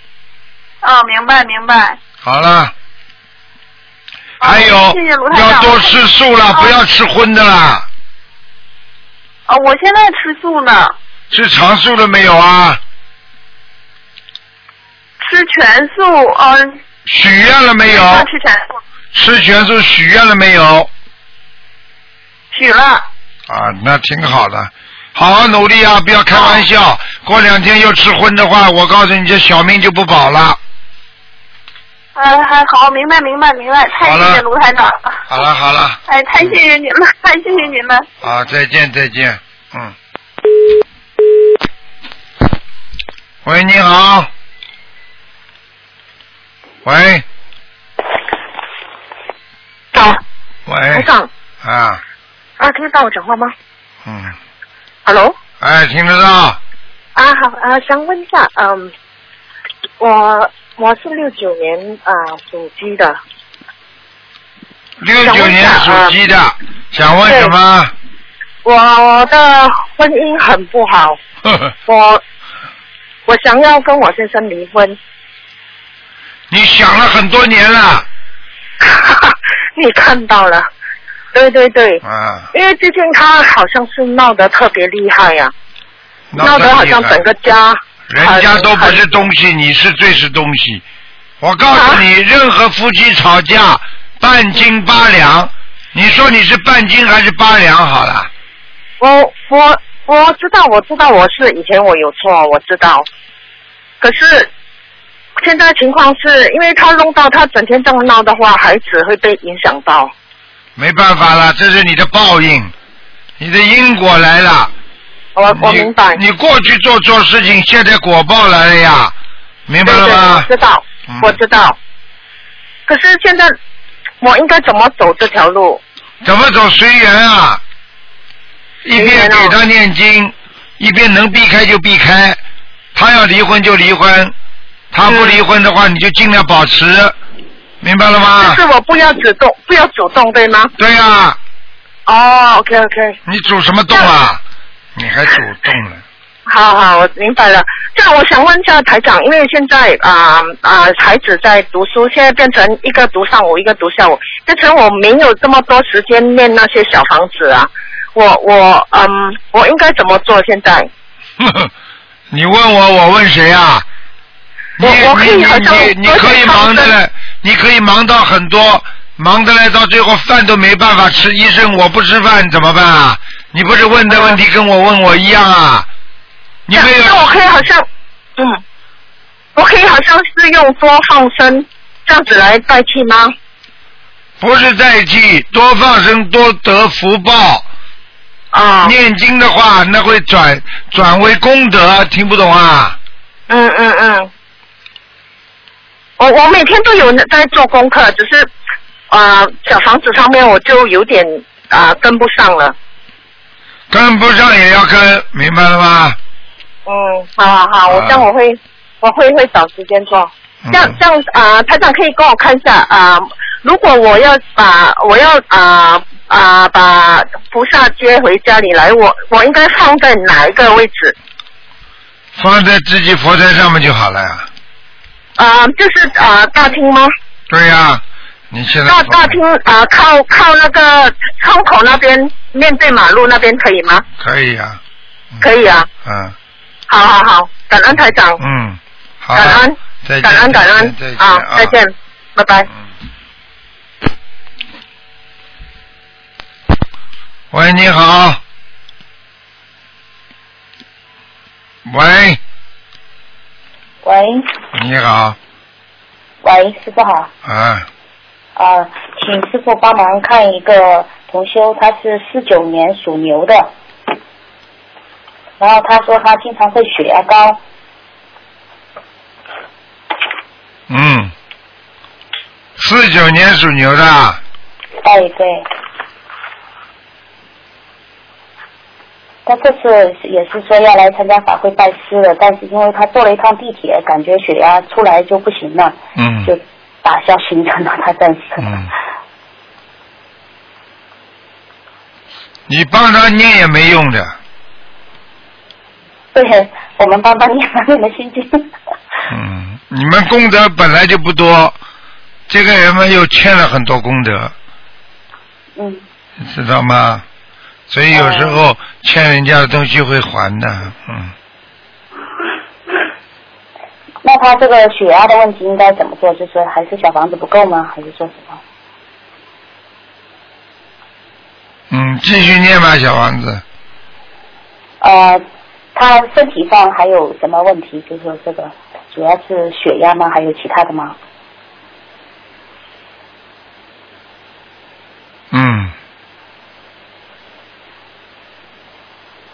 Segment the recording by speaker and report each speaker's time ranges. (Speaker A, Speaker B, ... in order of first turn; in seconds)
Speaker A: 0.8-2.0, 4.4-6.0, 6.5-6.8, 9.5-10.9, 15.2-16.8, 17.9-18.8, 22.5-23.0, 26.3-26.6, 32.1-35.3, 36.1-38.0
Speaker B: 2.2-2.7, 4.4-7.8, 11.3-12.8, 17.1-18.3, 19.1-20.9, 23.5-30.6, 34.0-34.4, 35.3-36.6, 38.2-39.9, 43.4-44.3, 46.8-47.2, 50.7-51.1, 51.6-52.0, 54.0-54.4, 55.6-56.6, 65.0-67.9, 76.5-78.1, 82.0-82.5, 86.3-87.2, 88.1-90.8, 91.4-98.3, 110.8-112.7, 113.4-114.7, 115.5-119.1, 119.7-120.5, 121.1-121.4, 126.2-127.6, 128.8-132.4, 132.9-134.3, 134.9-137.2, 137.8-138.6, 140.8-141.4, 143.2-144.4, 144.9-146.0, 161.4-161.7, 162.3-163.8, 164.8-175.9, 176.7-177.3, 184.4-187.7, 188.8-193.0, 203.9-206.2, 207.9-208.3, 210.6-211.0, 222.3-224.5, 227.5-229.4, 234.2-234.8, 236.0-236.3, 238.4-241.8, 247.5-248.4, 251.8-252.4, 254.7-255.4, 257.4-257.9, 270.9-271.3, 272.8-274.4, 286.1-286.5, 288.6-288.9, 292.7-294.4, 299.3-301.8, 302.5-304.5, 306.4-307.2, 307.9-311.3, 321.9-323.6, 335.5-335.9
Speaker C: 49.9-50.2, 50.9-51.3, 52.6-53.5, 55.0-55.4, 57.1-58.9, 60.0-63.2, 65.2-66.1, 67.2-67.5, 68.6-71.2, 71.8-72.2, 73.3-75.0, 78.8-80.7, 81.3-82.0, 82.5-85.5, 86.4-89.0, 91.7-92.0, 99.0-103.1, 104.0-104.5, 105.4-110.1, 115.3-116.2, 119.8-121.8, 122.9-123.5, 124.2-125.8, 128.9-129.5, 135.1-135.4, 138.4-140.7, 142.1-143.2, 146.5-160.9, 164.8-166.9, 174.1-174.4, 176.7-178.6, 179.5-183.3, 188.5-188.9, 193.5-194.3, 196.2-198.5, 199.1-202.7, 206.8-221.1, 225.4-227.1, 228.9-234.0, 235.4-235.9, 236.9-238.4, 239.3-242.7
Speaker D: 254.0-254.5, 256.4-257.3, 258.6-263.7, 265.6-267.6, 275.0-275.6, 279.4-288.7, 296.3-298.7, 305.8-306.0, 308.1-308.6, 314.2-318.6, 325.0-331.2